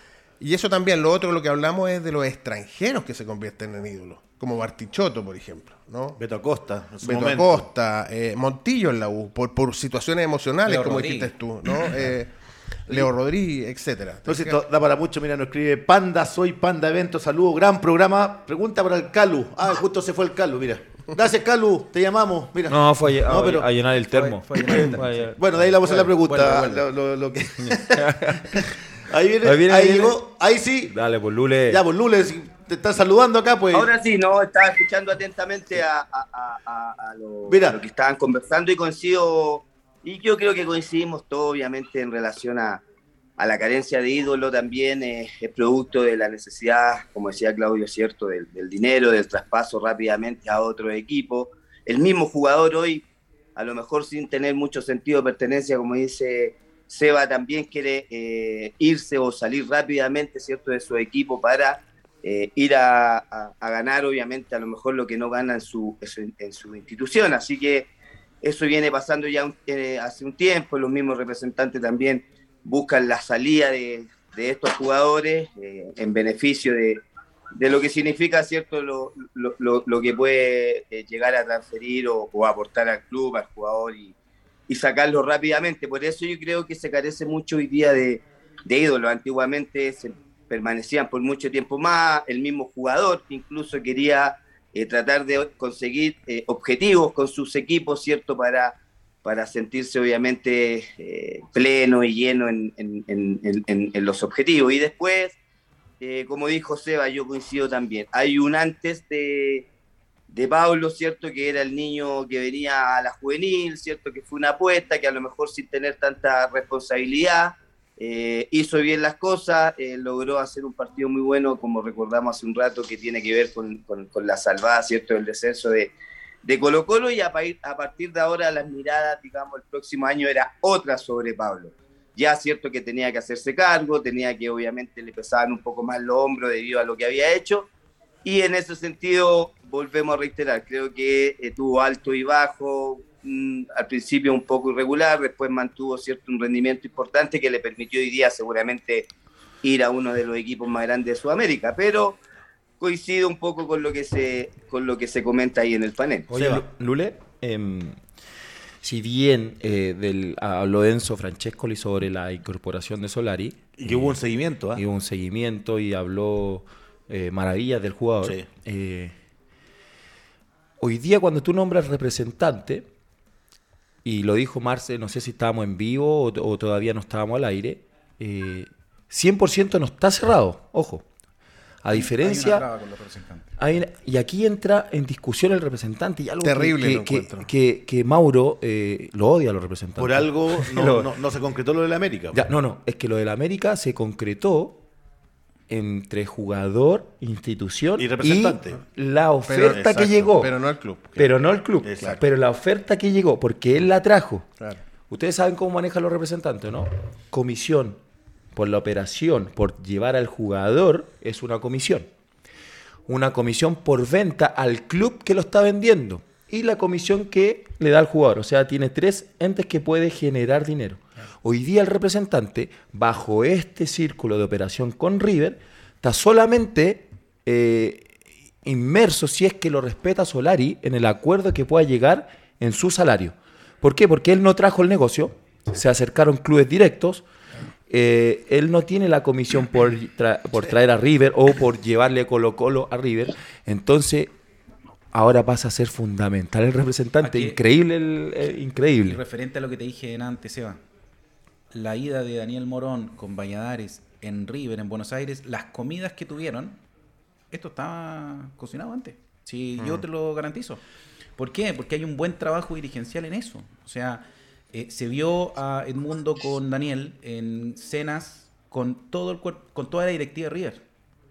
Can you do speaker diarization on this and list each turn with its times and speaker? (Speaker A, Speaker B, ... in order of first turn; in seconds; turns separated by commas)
Speaker A: 0.4-6.2, Speaker B: 6.2-7.7, Speaker A: 7.0-12.3, Speaker C: 10.7-11.3, Speaker A: 12.8-14.6, Speaker B: 14.3-23.7, Speaker D: 22.7-25.4, Speaker C: 24.1-26.9, Speaker B: 25.4-30.9, Speaker D: 27.6-28.7, Speaker D: 29.4-30.2, Speaker D: 30.9-31.8, Speaker B: 31.7-33.9, Speaker E: 33.7-42.8, Speaker B: 37.5-37.8, Speaker E: 43.4-67.9, Speaker E: 68.4-77.0, Speaker E: 77.6-84.2, Speaker E: 84.7-105.4, Speaker E: 106.0-109.7, Speaker E: 110.3-137.7, Speaker E: 138.2-149.1, Speaker E: 149.6-152.2, Speaker E: 152.8-156.3, Speaker D: 156.3-158.0, Speaker B: 156.3-156.6, Speaker D: 158.8-164.2, Speaker B: 163.8-164.8, Speaker D: 164.8-169.2, Speaker D: 170.8-172.9, Speaker D: 174.0-181.0, Speaker D: 181.8-182.7, Speaker C: 181.9-183.5, Speaker D: 183.6-191.1, Speaker A: 186.4-187.5, Speaker B: 190.0-192.4, Speaker D: 192.3-194.8, Speaker D: 195.7-200.5, Speaker B: 198.0-198.8, Speaker A: 199.5-201.3, Speaker B: 199.7-200.3, Speaker D: 201.2-204.5, Speaker B: 201.8-202.2, Speaker D: 205.1-208.0, Speaker D: 208.6-212.1, Speaker D: 213.1-237.2, Speaker D: 237.9-244.3, Speaker D: 245.1-249.2, Speaker C: 247.2-247.6, Speaker C: 249.1-250.8, Speaker C: 251.7-256.8, Speaker C: 257.5-260.8, Speaker C: 261.4-270.8